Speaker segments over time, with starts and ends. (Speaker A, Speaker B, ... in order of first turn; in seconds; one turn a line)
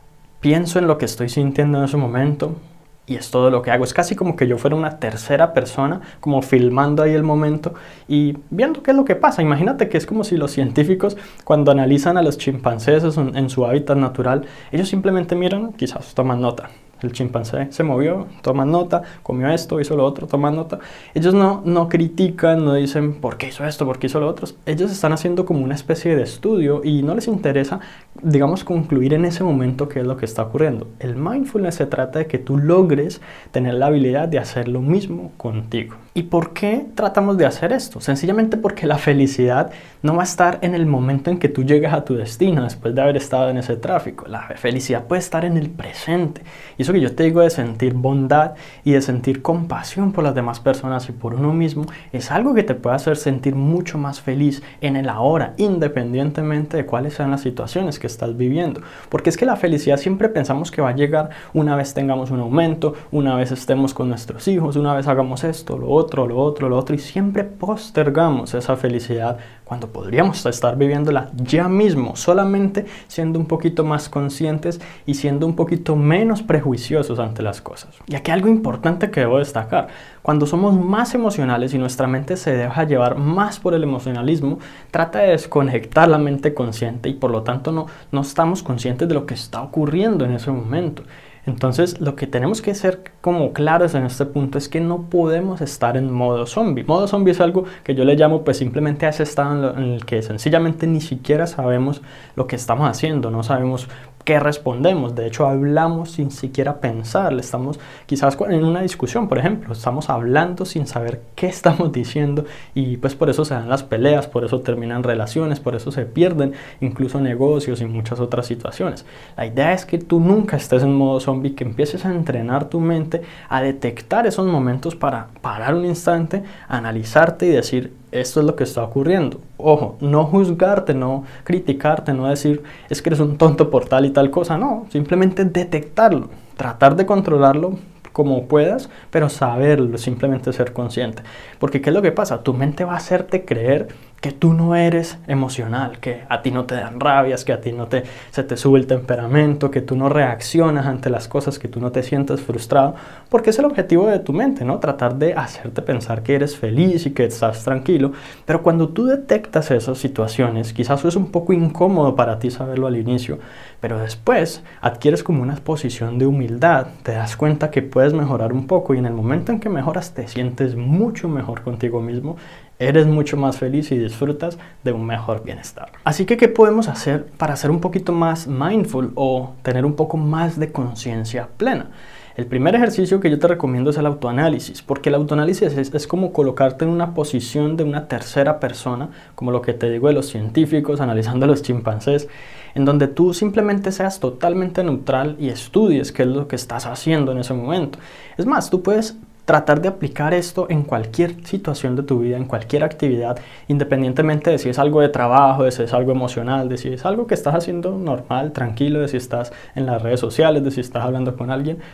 Speaker A: 0.4-211.8